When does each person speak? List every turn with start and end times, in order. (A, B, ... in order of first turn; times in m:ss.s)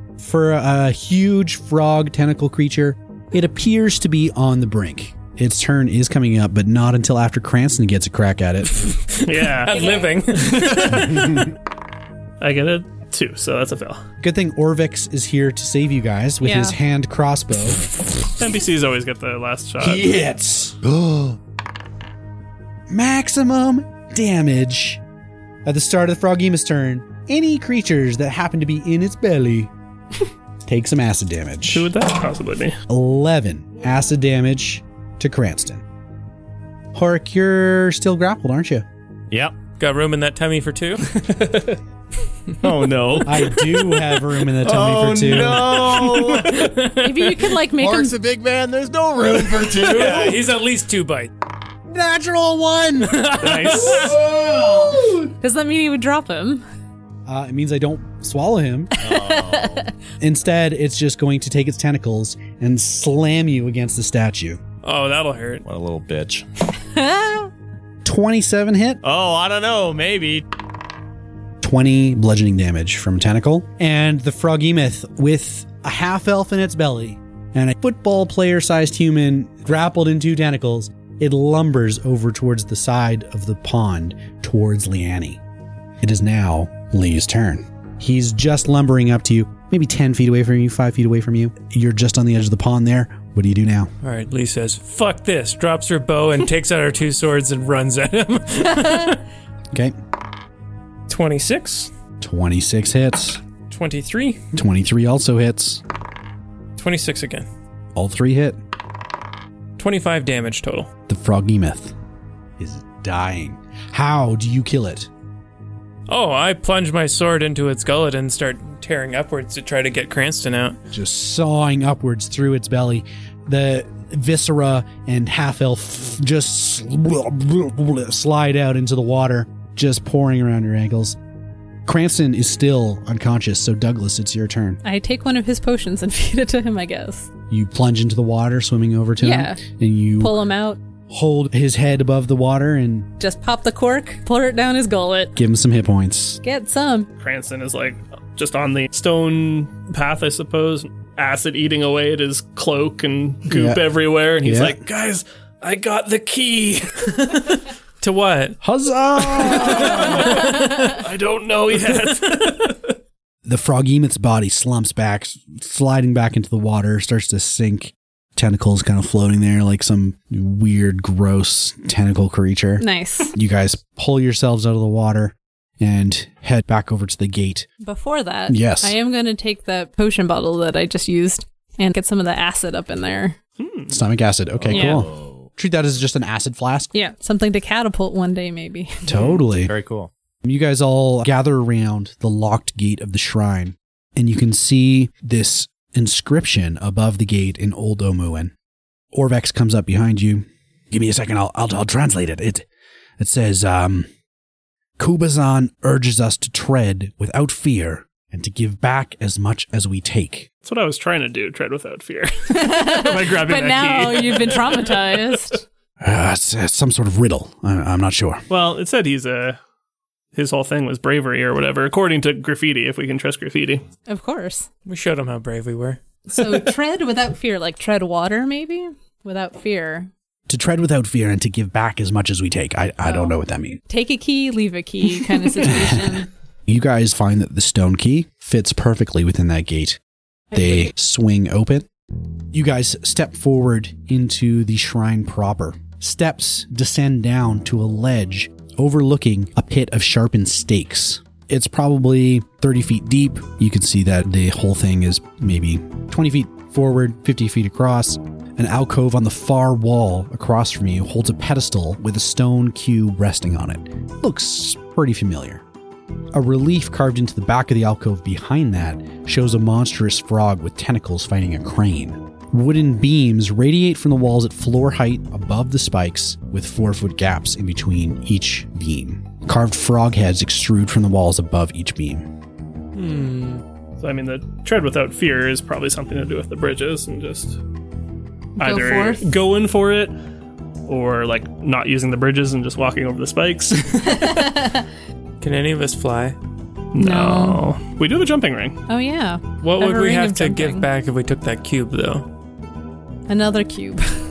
0:00.2-0:08.9 A
0:08.8-0:11.5 B
0:09.2-0:11.3 C
0:09.7-0:10.3 D
0:10.9-0:11.5 A
0:12.4-0:14.0 C
0:14.2-0:17.8 A
0:16.4-0:16.8 D
0:18.4-0:20.2 C
0:19.8-0:20.9 A
0:20.9-0:21.3 E
0:22.9-0:25.0 A
0:25.6-0:29.7 A
0:30.6-0:31.9 A
0:31.7-0:32.8 C
0:32.9-0:35.8 A
0:36.9-0:38.8 A
0:39.3-0:39.6 E
0:39.8-0:41.2 B
0:42.6-0:46.7 E
0:43.2-0:45.8 A
0:46.1-0:47.5 B
0:46.7-0:48.1 D
0:47.7-0:50.5 E
0:49.6-0:51.3 B
0:51.9-0:53.8 A
0:53.0-0:54.2 B
0:53.4-0:55.2 E
0:55.4-0:56.6 D
0:57.2-0:58.9 A
0:59.0-0:59.9 D
0:59.0-0:59.9 E
1:00.2-1:04.6 A
1:04.8-1:05.6 B
1:05.6-1:06.4 E
1:06.9-1:07.5 D
1:08.0-1:09.0 A
1:09.0-1:10.4 E
1:11.6-1:25.4 A
1:26.0-1:33.9 A
1:34.0-1:39.2 B
1:41.1-1:41.9 B
1:42.2-1:43.4 A
1:43.7-1:44.4 B
1:44.5-1:45.8 A
1:46.8-1:47.4 B
1:47.9-1:48.6 A
1:49.8-1:50.9 B
1:51.1-1:51.9 A
1:52.6-1:55.1 A
1:56.1-2:00.8 B
2:00.9-2:11.2 A
2:11.8-2:14.8 A
2:14.8-2:17.3 D
2:17.5-2:20.4 A
2:19.2-2:19.6 D
2:20.2-2:20.8 D
2:21.1-2:23.1 A
2:23.2-2:25.3 D
2:25.4-2:26.4 A
2:26.4-2:27.1 D
2:27.2-2:37.3 C
2:33.5-2:33.8 A
2:34.4-2:34.8 A
2:37.2-2:38.6 B
2:38.6-2:40.4 A
2:39.3-2:42.8 C
2:39.6-2:40.9 B
2:43.4-2:57.7 A
2:52.8-2:53.3 D
2:57.8-3:03.4 D
2:58.5-2:58.9 A
3:03.6-3:03.9 C
3:03.9-3:06.9 A
3:04.6-3:05.5 E
3:04.7-3:05.1 D
3:06.9-3:09.0 D
3:09.0-3:09.7 A
3:09.2-3:10.1 E
3:10.4-3:18.5 A
3:19.1-3:22.7 A
3:23.2-3:24.1 A
3:25.0-3:30.5 A
3:30.6-3:35.4 C
3:32.5-3:35.6 D
3:36.0-3:38.4 A
3:38.5-3:39.6 C
3:40.3-3:43.8 C
3:44.1-3:44.7 D
3:44.8-3:46.0 B
3:46.3-3:50.1 D
3:50.5-3:53.8 A
3:53.0-3:53.4 D
3:53.9-3:56.3 D
3:55.6-4:00.0 A
4:00.5-4:01.9 A
4:02.5-4:25.6 A
4:26.3-4:42.2 A
4:42.9-4:43.6 B
4:44.0-4:47.6 C
4:48.6-4:49.3 D
4:48.6-4:50.1 C
4:50.8-4:54.6 C
4:54.2-4:54.8 D
4:55.4-4:56.4 B
4:56.9-4:58.8 C
4:57.0-4:57.6 D
4:58.9-5:00.9 D
4:59.6-5:02.3 B
5:03.3-5:04.0 D